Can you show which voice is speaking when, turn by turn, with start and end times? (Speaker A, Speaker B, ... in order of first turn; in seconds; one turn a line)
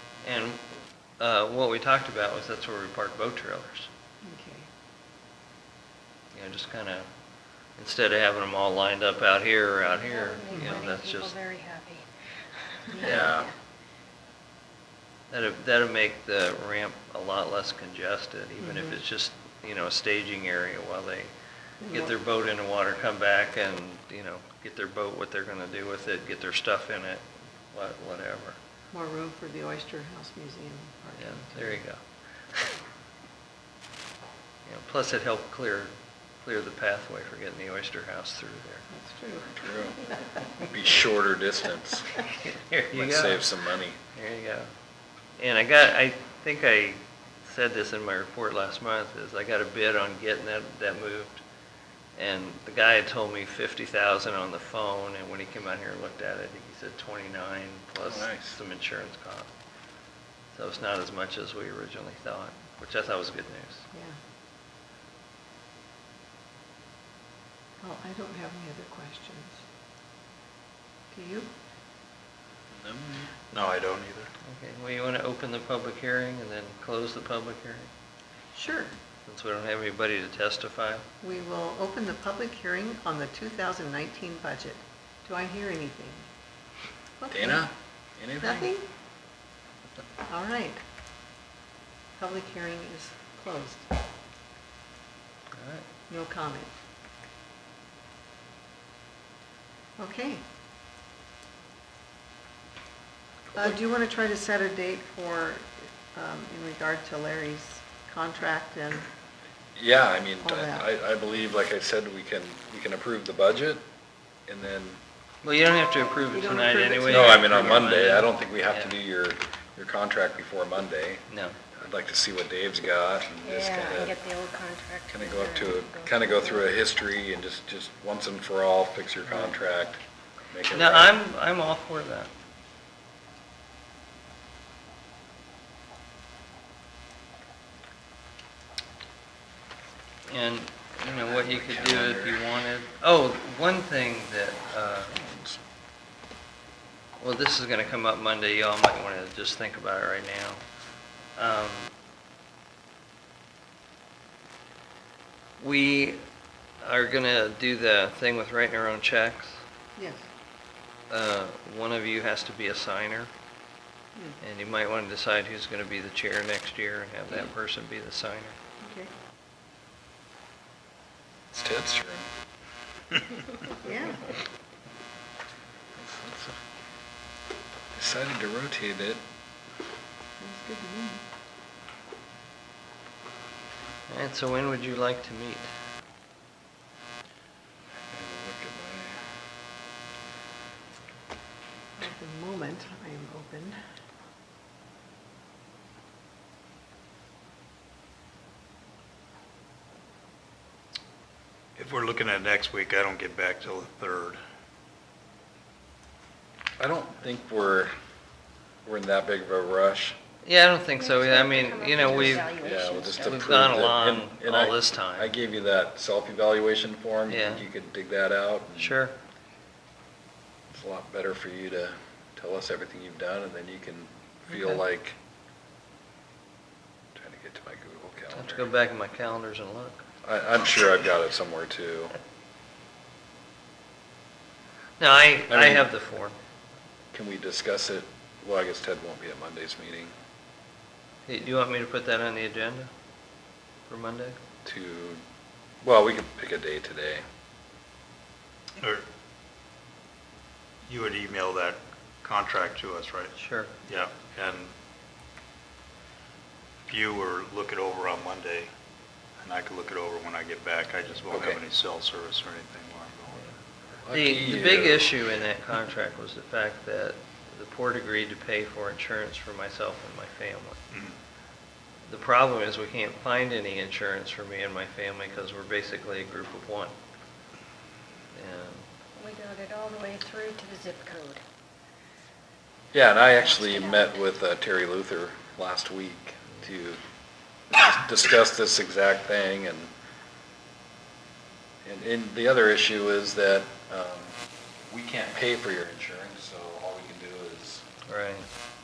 Speaker A: 0.2-0.6
Speaker A: 1.2-3.9
Speaker B: 4.2-4.7
Speaker A: 6.3-7.0
Speaker A: 7.8-11.3
Speaker C: 9.9-12.1
Speaker B: 10.5-10.8
Speaker C: 12.9-13.5
Speaker D: 13.0-13.5
Speaker A: 13.0-13.3
Speaker A: 15.3-21.3
Speaker B: 18.6-19.0
Speaker B: 21.8-22.1
Speaker A: 21.9-28.6
Speaker B: 28.9-31.8
Speaker A: 31.2-32.0
Speaker A: 34.6-35.9
Speaker A: 36.4-38.9
Speaker B: 38.9-39.7
Speaker D: 39.5-40.0
Speaker D: 40.6-42.1
Speaker A: 42.4-43.5
Speaker D: 42.9-44.0
Speaker A: 44.1-44.7
Speaker A: 45.4-51.4
Speaker A: 52.1-59.5
Speaker D: 58.0-58.6
Speaker A: 60.5-63.9
Speaker B: 63.9-64.2
Speaker B: 67.8-69.6
Speaker B: 71.1-71.5
Speaker D: 72.7-73.3
Speaker E: 73.5-74.3
Speaker A: 74.5-77.9
Speaker B: 78.5-79.0
Speaker A: 79.2-81.0
Speaker B: 81.2-86.3
Speaker B: 87.2-87.7
Speaker D: 87.3-88.7
Speaker B: 88.4-88.9
Speaker B: 90.2-90.8
Speaker B: 92.2-93.9
Speaker A: 95.5-95.8
Speaker B: 96.1-96.7
Speaker B: 100.0-100.4
Speaker B: 103.5-109.0
Speaker D: 109.7-113.8
Speaker B: 110.4-110.9
Speaker D: 114.5-115.0
Speaker A: 115.4-119.0
Speaker B: 116.1-117.9
Speaker D: 117.0-121.2
Speaker A: 121.3-121.5
Speaker D: 121.8-124.1
Speaker C: 123.4-126.7
Speaker D: 125.1-130.0
Speaker A: 129.2-129.5
Speaker D: 130.5-131.2
Speaker A: 130.7-132.3
Speaker A: 140.3-145.1
Speaker D: 141.2-142.4
Speaker D: 145.0-145.6
Speaker A: 147.2-150.6
Speaker A: 151.3-151.9
Speaker A: 155.6-156.2
Speaker A: 156.8-159.6
Speaker B: 160.0-160.3
Speaker A: 161.1-163.3
Speaker A: 164.4-168.6
Speaker B: 168.8-169.1
Speaker D: 171.5-172.3
Speaker B: 173.7-174.3
Speaker D: 176.0-176.6
Speaker D: 177.9-179.2
Speaker B: 180.4-181.2
Speaker A: 184.1-185.7
Speaker D: 188.1-189.3
Speaker B: 192.0-193.8
Speaker E: 201.8-204.4
Speaker D: 206.8-207.9
Speaker D: 208.8-210.2
Speaker A: 210.4-212.6
Speaker C: 210.9-213.4
Speaker D: 212.3-219.0
Speaker A: 213.2-215.3
Speaker A: 217.3-217.6
Speaker A: 218.8-219.1
Speaker D: 220.7-225.2
Speaker D: 227.1-228.7
Speaker A: 228.3-230.0
Speaker D: 230.2-232.1
Speaker A: 235.0-236.3
Speaker D: 235.5-235.9
Speaker D: 237.1-240.1
Speaker A: 241.3-242.9
Speaker A: 243.9-244.4
Speaker D: 244.6-245.2
Speaker D: 245.8-247.2
Speaker E: 248.8-249.0
Speaker E: 250.8-253.3
Speaker A: 253.4-253.7
Speaker E: 253.9-254.7
Speaker E: 256.9-258.7
Speaker E: 259.4-263.5
Speaker D: 261.3-261.6
Speaker D: 264.0-265.2
Speaker A: 264.1-270.8
Speaker A: 272.1-276.9
Speaker A: 278.3-278.8
Speaker C: 279.1-281.4
Speaker D: 282.9-287.0
Speaker C: 283.4-284.1
Speaker D: 287.7-289.9
Speaker D: 291.8-297.8
Speaker A: 298.1-298.4